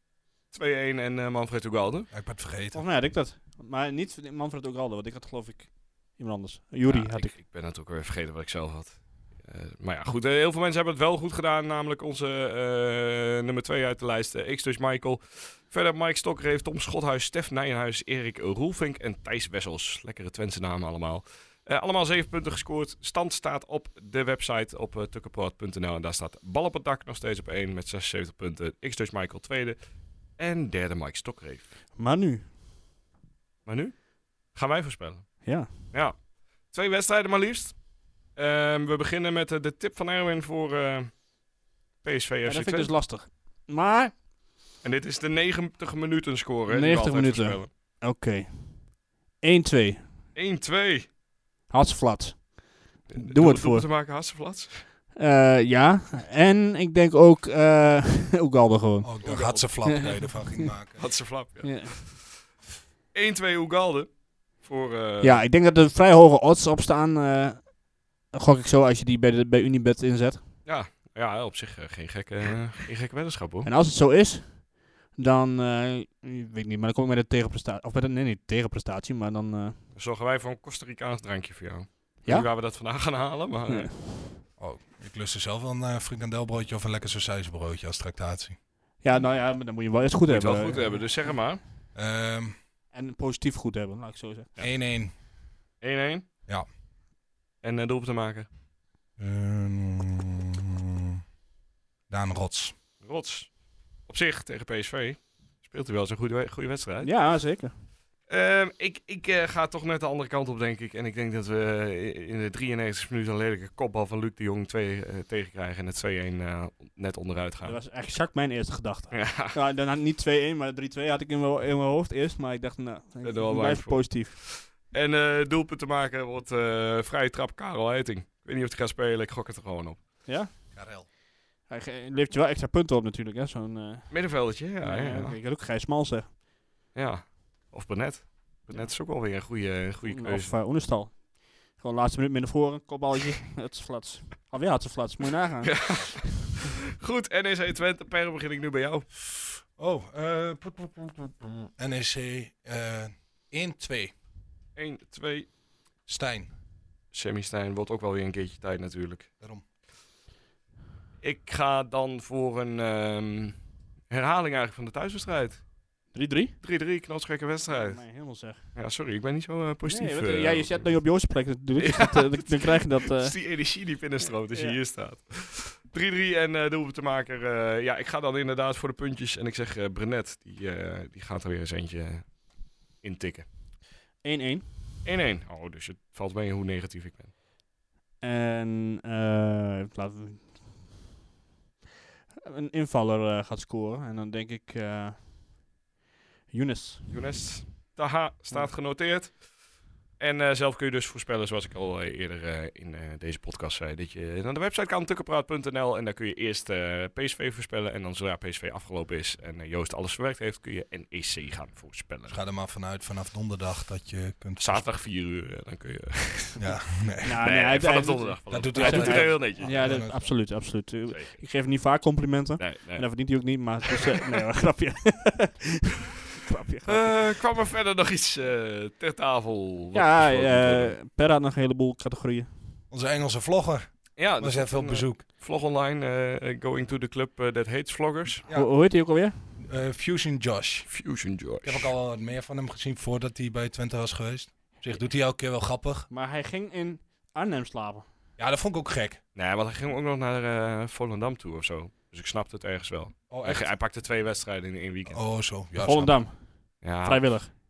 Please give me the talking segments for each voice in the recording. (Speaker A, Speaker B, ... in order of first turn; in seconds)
Speaker A: 0.5-2.1, 6.8-31.7, 33.6-41.2, 42.0-42.9, 44.8-47.7, 50.3-51.1, 53.1-54.9, 59.2-60.0, 61.0-62.4, 63.1-65.4, 70.6-73.7, 79.9-83.9, 90.3-91.6, 95.8-96.3, 97.6-98.5, 103.0-103.5, 104.0-107.1, 108.3-117.8, 119.1-119.5, 123.2-130.2, 134.1-135.4, 136.9-140.6, 145.6-149.1, 154.8-155.5, 157.1-159.3, 161.2-165.7, 166.6-171.0, 171.8-182.4, 183.0-183.5, 185.0-187.3, 197.1-199.4, 200.2-212.4, 214.6-216.7, 217.4-219.9, 221.1-221.4, 222.6-223.2, 226.8-230.9, 234.2-238.4, 240.9-241.9, 249.3-255.2, 256.8-257.5
Speaker B: 2.1-2.8, 59.0-61.1, 84.6-88.6, 91.9-92.5, 94.6-95.1, 99.2-101.2, 102.1-102.7, 130.7-131.1, 149.3-154.1, 156.1-156.5, 212.3-214.9, 216.6-217.4, 218.5-220.3, 232.9-235.2, 238.4-238.9, 239.6-241.1, 241.6-246.1, 248.4-249.2, 253.3-253.7, 255.1-256.3
Speaker C: 2.7-7.4, 31.9-32.5, 35.4-35.8, 42.5-44.2, 46.7-50.0, 51.7-53.9, 55.1-59.2, 59.8-60.7, 61.6-62.0, 65.2-70.4, 73.6-79.8, 82.2-82.5, 83.7-84.4, 89.0-91.5, 92.9-94.5, 107.0-107.8, 117.6-124.4, 130.2-130.5, 131.7-136.3, 138.7-139.0, 140.0-146.3, 166.1-166.6, 167.7-168.7, 169.8-173.8, 174.5-174.8, 184.2-184.9, 188.2-190.9, 192.4-195.4, 196.5-197.1, 217.2-227.4, 229.9-232.5, 238.5-239.4, 246.1-248.1, 255.8-257.5